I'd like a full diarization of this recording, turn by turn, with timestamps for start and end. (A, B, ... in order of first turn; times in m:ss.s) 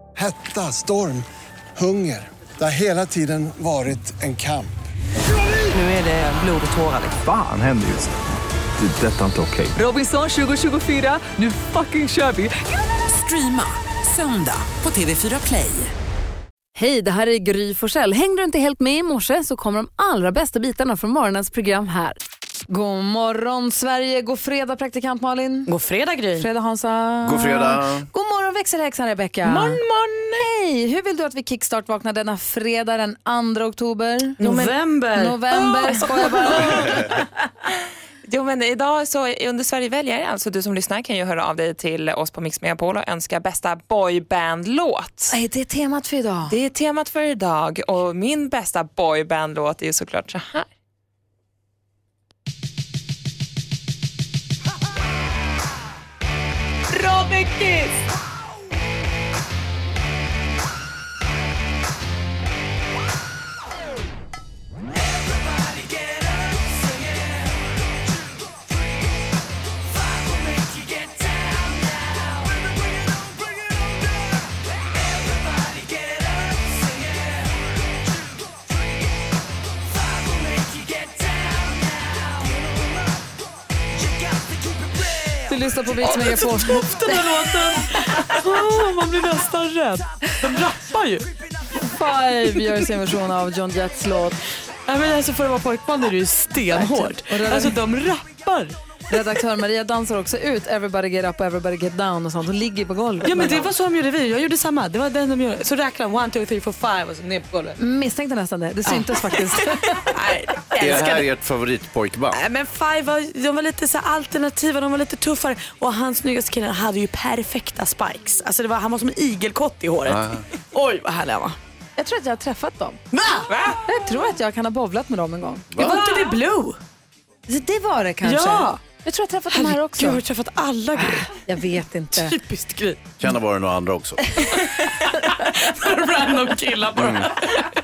0:00.2-0:04.8 A
0:05.7-0:07.2 B
0:07.2-0:08.1 C
0:08.8-0:09.8 C
0:09.8-0:12.5 D
0:12.7-0:15.9 B
0:16.8-0:25.7 D
0:25.7-0:26.5 E
0:26.4-0:29.8 D
0:27.2-0:28.1 F
0:29.4-0:30.4 E
0:30.4-0:37.1 D
0:34.4-0:36.8 E
0:38.2-0:45.3 G
0:45.3-0:46.6 D
0:46.5-0:50.7 G
1:25.5-1:27.3 D
1:26.0-1:31.3 E
1:31.8-1:34.4 D
1:34.8-1:38.8 E
1:36.7-1:37.8 D
1:39.1-1:43.6 D
1:43.2-1:47.7 E
1:47.8-1:50.1 D
1:48.8-1:51.3 E
1:50.8-1:52.4 F
1:52.3-2:01.6 E
2:00.0-2:00.4 F
2:02.0-2:03.0 D
2:03.1-2:03.7 E
2:03.8-2:05.8 D
2:05.7-2:06.0 F
2:05.8-2:06.8 E
2:07.5-2:10.2 D
2:08.2-2:08.8 E
2:09.5-2:11.3 E
2:11.0-2:12.4 D
2:12.1-2:13.1 E
2:13.2-2:14.2 F
2:14.6-2:17.7 E
2:16.9-2:17.3 F